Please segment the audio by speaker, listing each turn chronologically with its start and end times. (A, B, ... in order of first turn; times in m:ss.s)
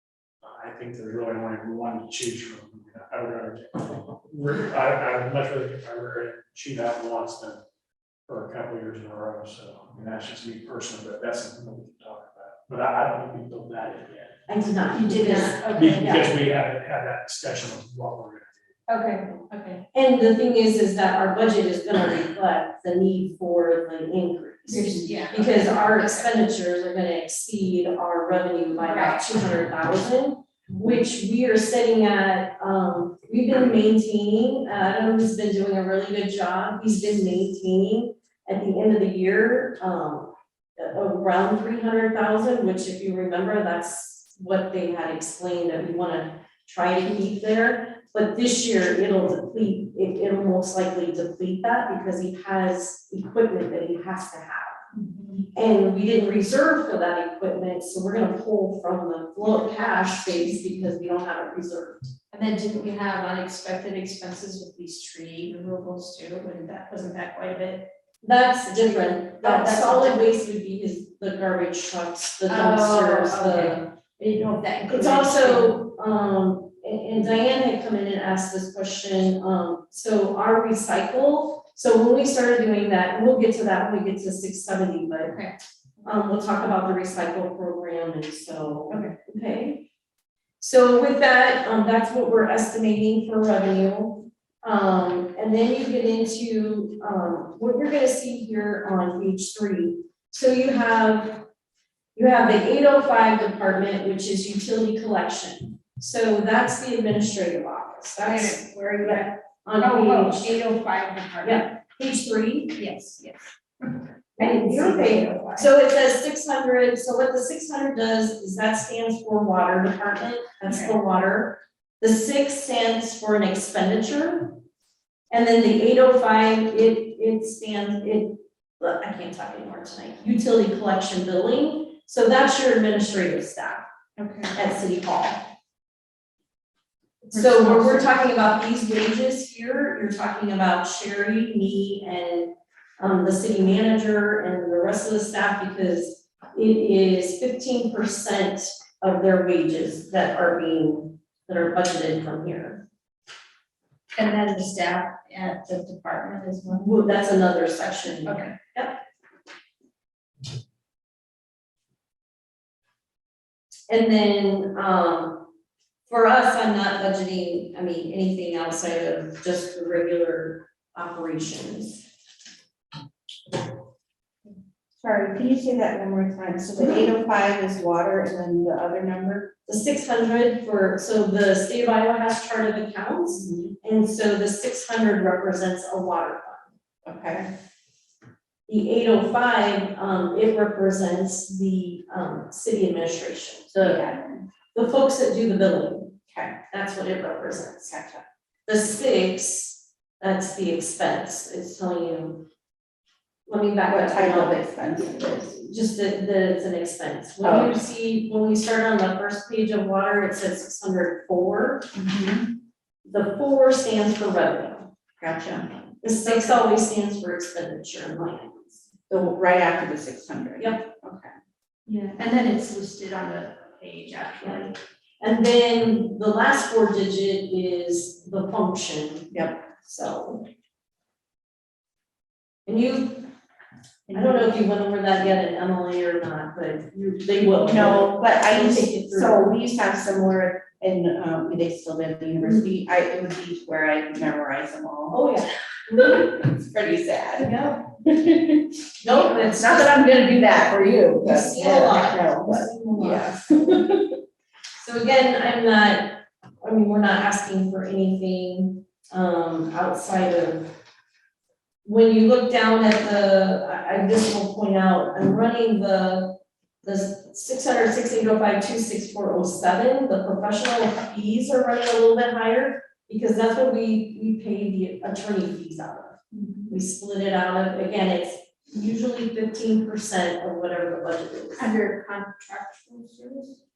0:00.4-0:07.6 A
0:08.3-0:14.4 A
0:14.5-0:16.3 B
0:14.9-0:16.3 C
0:15.6-0:18.6 A
0:18.9-0:19.8 C
0:19.9-0:54.8 B
0:24.7-0:26.4 C
0:28.8-0:29.2 C
0:54.9-0:55.4 C
0:55.5-1:02.1 B
1:02.3-1:07.9 C
1:08.2-1:13.9 B
1:09.4-1:10.2 C
1:12.5-1:15.8 C
1:14.9-1:25.4 B
1:25.3-1:25.6 C
1:26.0-1:29.8 B
1:30.6-1:41.4 B
1:42.2-1:50.6 B
1:48.2-1:51.7 C
1:51.4-1:52.8 B
1:52.8-1:55.7 C
1:54.4-2:04.6 B
2:00.7-2:00.9 C
2:05.3-2:13.8 B
2:14.2-2:14.5 D
2:14.5-2:15.5 B
2:17.2-2:32.8 B
2:17.4-2:18.0 D
2:34.2-2:36.9 C
2:36.7-2:39.0 B
2:38.2-2:38.5 C
2:43.9-2:45.5 B
2:46.1-2:52.0 B
2:55.0-2:59.5 D
2:59.7-3:06.7 B
3:03.4-3:03.7 D
3:07.1-3:07.5 D
3:08.7-3:14.0 B
3:13.8-3:14.4 D
3:14.7-3:16.1 B
3:16.3-3:16.5 D
3:16.7-3:18.0 B
3:17.9-3:18.2 D
3:18.7-3:22.5 B
3:23.5-3:31.9 B
3:23.9-3:25.6 D
3:27.4-3:27.8 D
3:32.0-3:32.5 D
3:33.0-3:34.9 B
3:35.2-3:35.7 D
3:36.0-3:38.8 B
3:39.1-3:41.3 D
3:41.9-3:44.8 C
3:45.2-3:50.5 B
3:49.3-3:49.6 D
3:52.7-3:53.3 B
3:54.1-3:59.6 B
3:57.6-4:05.2 D
4:05.1-4:06.3 B
4:06.0-4:14.0 D
4:07.4-4:07.8 B
4:09.0-4:13.8 B
4:14.8-4:20.7 B
4:21.8-4:36.2 B
4:36.3-4:36.8 C
4:36.7-4:41.7 B
4:41.6-4:43.6 C